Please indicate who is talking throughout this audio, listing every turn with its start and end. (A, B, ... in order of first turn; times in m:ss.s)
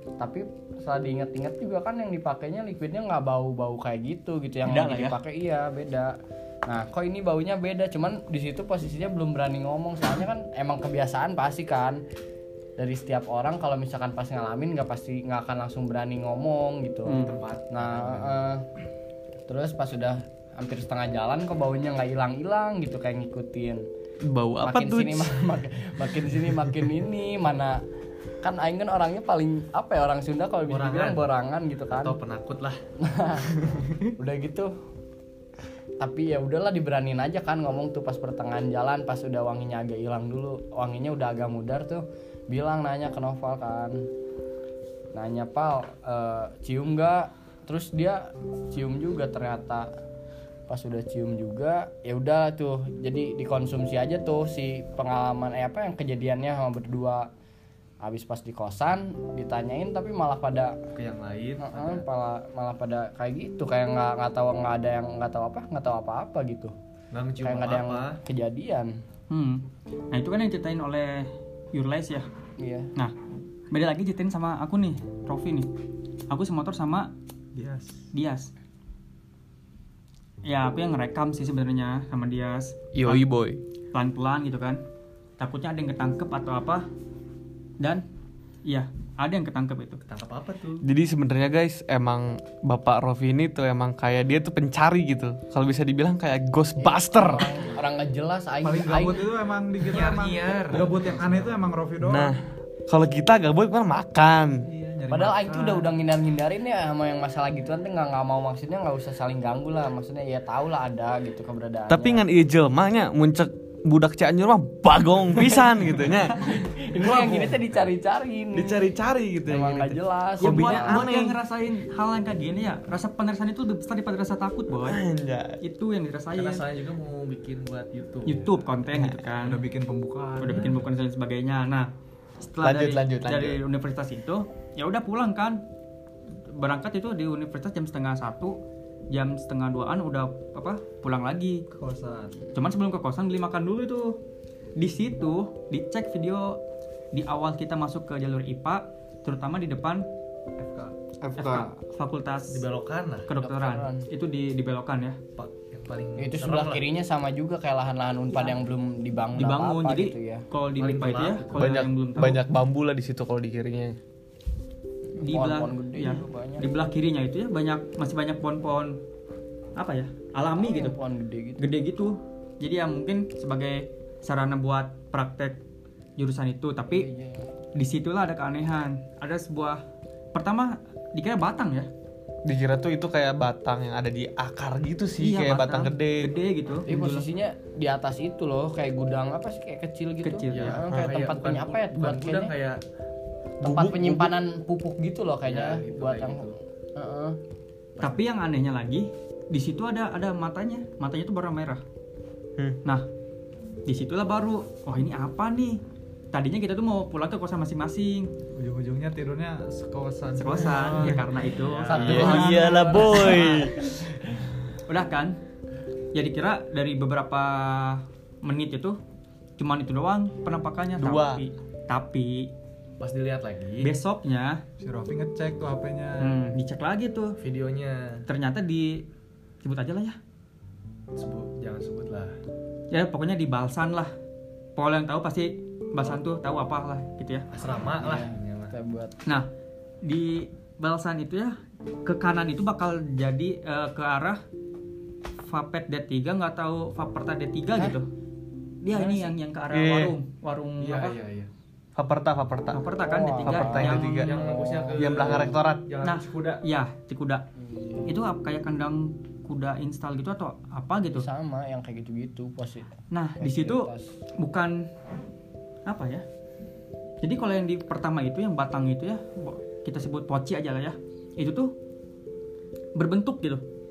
0:00.2-0:06.1 A
0:04.6-0:05.2 B
0:06.7-0:12.0 A
0:12.8-0:18.6 A
0:17.0-0:17.3 B
0:17.2-0:18.4 C
0:19.5-0:23.8 A
0:24.2-0:25.3 D
0:24.6-0:27.8 A
0:28.4-0:32.2 A
0:30.6-0:31.3 C
0:31.9-0:32.8 C
0:33.0-0:34.7 A
0:36.0-0:44.0 A
0:45.1-0:49.9 A
0:50.7-0:57.2 A
0:58.0-1:00.7 A
1:00.9-1:02.0 C
1:01.6-1:06.7 A
1:07.1-1:08.2 C
1:07.4-1:08.9 A
1:09.3-1:12.3 B
1:12.6-1:12.9 A
1:13.7-1:15.7 B
1:16.3-1:17.1 B
1:17.5-1:18.0 E
1:18.1-1:18.5 B
1:20.4-1:23.2 B
1:22.9-1:23.6 D
1:23.9-1:24.8 B
1:25.4-1:26.9 B
1:27.8-1:28.0 B
1:28.6-1:30.0 B
1:30.0-1:30.9 C
1:30.8-1:37.5 D
1:36.8-1:39.3 A
1:38.6-1:42.3 E
1:39.9-1:41.7 C
1:42.0-1:44.7 D
1:44.6-1:46.0 E
1:45.1-1:52.2 A
1:51.9-1:57.5 D
1:56.1-1:58.9 A
1:58.5-2:01.4 D
1:59.4-2:01.1 A
2:00.4-2:05.0 B
2:04.8-2:05.6 D
2:05.6-2:06.6 B
2:06.3-2:08.5 C
2:08.2-2:09.6 B
2:08.9-2:09.2 D
2:09.4-2:10.8 E
2:10.4-2:11.9 B
2:12.4-2:15.6 B
2:12.6-2:13.6 D
2:16.4-2:21.6 B
2:21.7-2:22.4 E
2:22.5-2:24.2 B
2:24.8-2:26.6 B
2:27.1-2:30.1 B
2:30.6-2:30.9 E
2:31.2-2:31.7 D
2:31.4-2:32.6 B
2:32.5-2:33.3 C
2:33.3-2:35.2 B
2:33.3-2:34.1 A
2:35.4-2:36.8 C
2:36.2-2:40.4 A
2:39.4-2:42.4 B
2:40.8-2:41.7 C
2:41.5-2:44.0 D
2:45.2-2:46.7 A
2:45.2-2:49.0 B
2:49.8-2:51.0 B
2:50.6-2:51.6 A
2:51.6-2:55.6 B
2:56.2-2:57.1 B
2:56.8-2:57.5 A
2:57.7-2:59.8 B
3:00.3-3:01.9 B
3:02.4-3:06.3 D
3:05.2-3:07.2 B
3:06.9-3:12.5 A
3:10.2-3:10.8 B
3:10.5-3:12.8 C
3:10.9-3:11.2 D
3:13.6-3:17.4 A
3:13.6-3:14.4 D
3:15.4-3:16.6 C
3:18.0-3:21.8 B
3:23.8-3:25.8 B
3:26.3-3:28.3 B
3:28.5-3:31.3 E
3:30.4-3:33.3 B
3:31.6-3:32.8 C
3:31.9-3:33.5 E
3:31.9-3:33.9 D
3:34.8-3:35.4 B
3:36.1-3:39.0 B
3:39.6-3:42.5 B
3:41.0-3:41.4 D
3:43.0-3:43.9 C
3:43.8-3:44.6 B
3:44.8-3:46.4 E
3:46.2-3:47.4 B
3:47.4-3:48.2 C
3:48.3-3:49.0 B
3:49.6-3:50.2 B
3:51.1-3:52.4 C
3:52.9-3:54.1 B
3:54.8-3:57.5 B
3:57.5-3:58.7 C
3:57.9-3:59.2 A
4:00.0-4:04.4 B
4:05.4-4:08.1 B
4:08.8-4:11.2 B
4:08.9-4:09.4 A
4:09.7-4:10.2 D
4:10.8-4:11.5 C
4:12.0-4:12.8 D
4:12.7-4:14.1 B
4:13.0-4:15.5 A
4:13.4-4:14.4 D
4:14.1-4:16.6 C
4:14.9-4:15.8 D
4:16.0-4:17.5 B
4:17.6-4:18.1 A
4:18.0-4:21.2 B
4:21.1-4:24.1 A
4:23.1-4:24.9 B
4:25.8-4:26.2 B
4:27.2-4:31.7 B
4:32.9-4:33.6 B